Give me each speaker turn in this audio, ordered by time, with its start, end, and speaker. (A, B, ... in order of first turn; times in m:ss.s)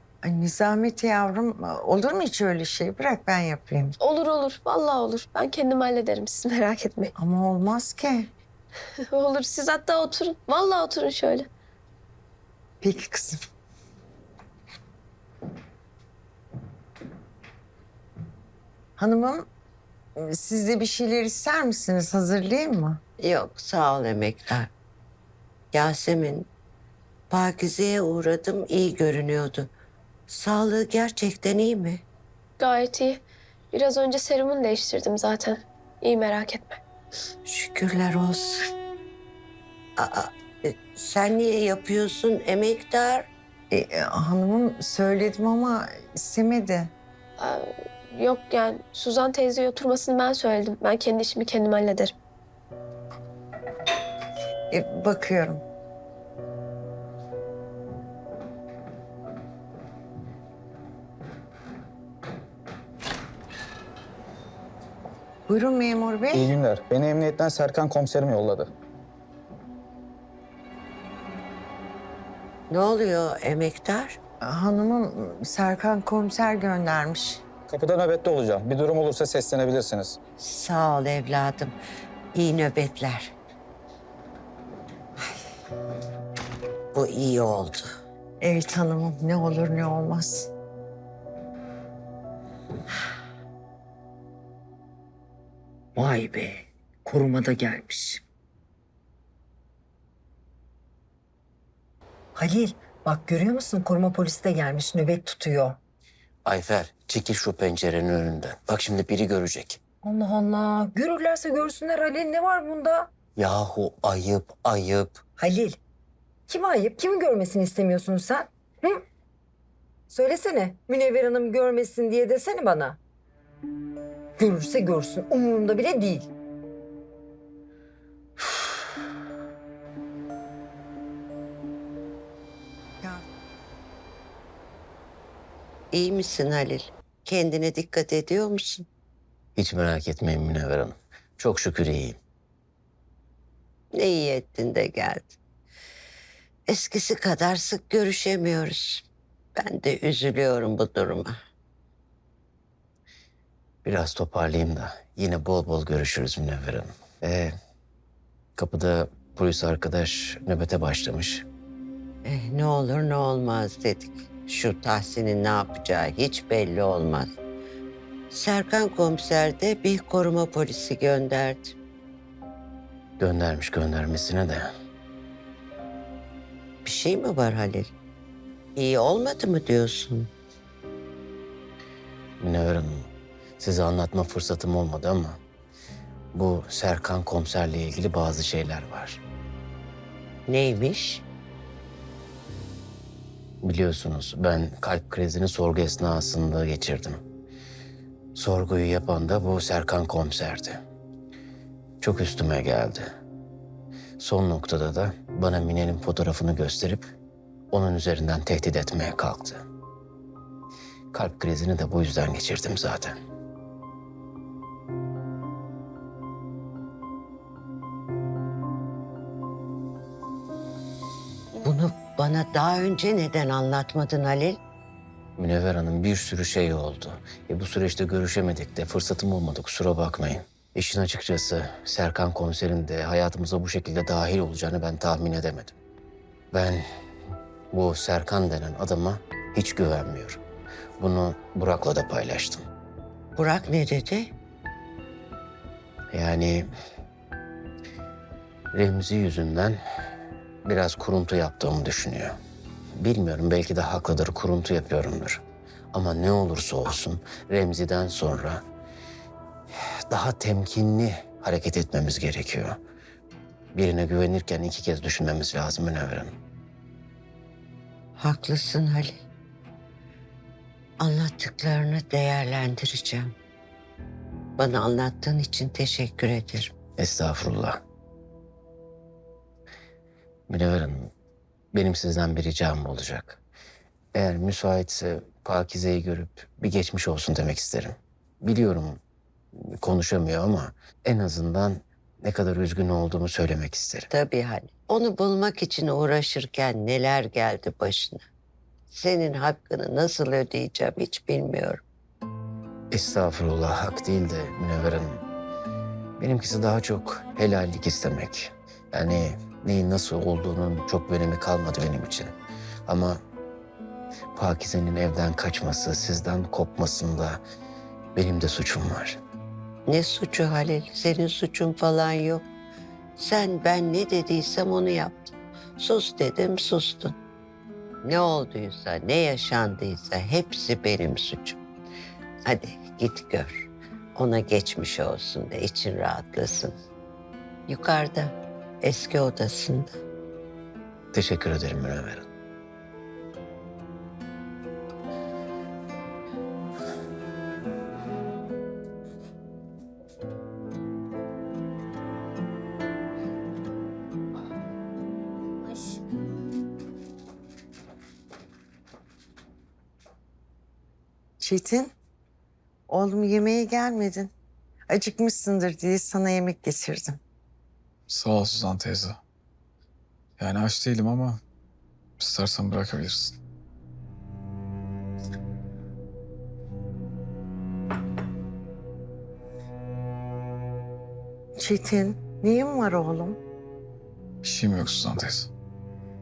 0:00.2-0:04.0 A
0:04.0-0:07.1 B
0:07.2-0:08.3 A
0:09.1-0:11.5 B
0:12.8-0:13.4 A
0:19.0-0:19.5 A
0:20.2-0:23.0 A
0:23.2-0:24.7 C
0:25.7-0:26.5 C
0:27.3-0:29.7 C
0:30.3-0:32.0 C
0:32.6-0:36.8 B
0:37.4-0:38.7 C
0:40.0-0:43.3 C
0:43.7-0:46.9 A
0:47.4-0:52.1 B
0:54.7-0:55.6 A
1:05.5-1:06.6 A
1:06.3-1:08.7 D
1:12.7-1:14.2 C
1:14.4-1:17.4 A
1:17.7-1:20.2 D
1:20.4-1:21.7 C
1:22.3-1:23.3 C
1:26.9-1:27.8 C
1:28.4-1:30.5 A
1:36.0-1:38.2 E
1:42.3-1:45.8 E
1:46.4-1:49.8 F
1:50.0-1:53.1 E
1:53.4-1:55.2 F
1:55.4-1:55.8 E
1:56.5-1:59.0 E
2:00.1-2:03.0 E
2:04.4-2:06.3 E
2:15.9-2:18.9 C
2:19.6-2:22.2 F
2:23.9-2:25.4 C
2:26.7-2:29.1 C
2:29.6-2:31.3 C
2:33.8-2:37.5 F
2:38.6-2:41.4 F
2:42.2-2:47.3 C
2:48.3-2:51.8 C
2:53.2-2:54.7 F
2:56.8-2:57.9 C
2:58.8-3:00.3 C
3:02.4-3:05.4 F
3:06.3-3:09.2 F
3:10.5-3:11.2 C
3:13.6-3:17.2 F
3:18.3-3:20.8 F
3:22.0-3:23.1 F
3:24.2-3:27.1 F
3:27.7-3:29.6 F
3:31.1-3:33.2 F
3:41.6-3:44.6 C
3:45.4-3:55.8 F
3:56.5-3:56.8 F
3:57.7-4:00.4 F
4:01.0-4:02.7 F
4:03.4-4:04.3 C
4:06.1-4:06.7 F
4:08.7-4:09.8 F
4:10.6-4:12.4 F
4:13.0-4:18.6 F
4:20.1-4:22.8 F
4:23.7-4:26.4 F
4:28.2-4:29.2 C
4:31.0-4:33.4 C
4:34.6-4:36.7 C
4:37.0-4:37.8 F
4:40.5-4:41.1 F
4:41.7-4:43.4 F
4:44.2-4:49.0 F
4:49.8-4:54.1 F
4:54.1-4:58.2 C
4:58.9-5:01.8 C
5:02.9-5:05.2 F
5:06.2-5:12.4 F
5:12.9-5:13.2 F
5:14.4-5:17.4 F
5:18.2-5:19.2 F
5:19.9-5:22.5 C
5:23.2-5:27.2 C
5:28.0-5:31.6 C
5:32.4-5:36.8 C
5:37.7-5:39.9 C
5:41.1-5:42.3 F
6:01.4-6:01.9 A
6:02.9-6:04.3 A
6:04.9-6:07.2 A
6:08.1-6:09.2 G
6:10.4-6:11.4 G
6:12.2-6:13.4 G
6:21.6-6:23.4 A
6:24.4-6:25.5 G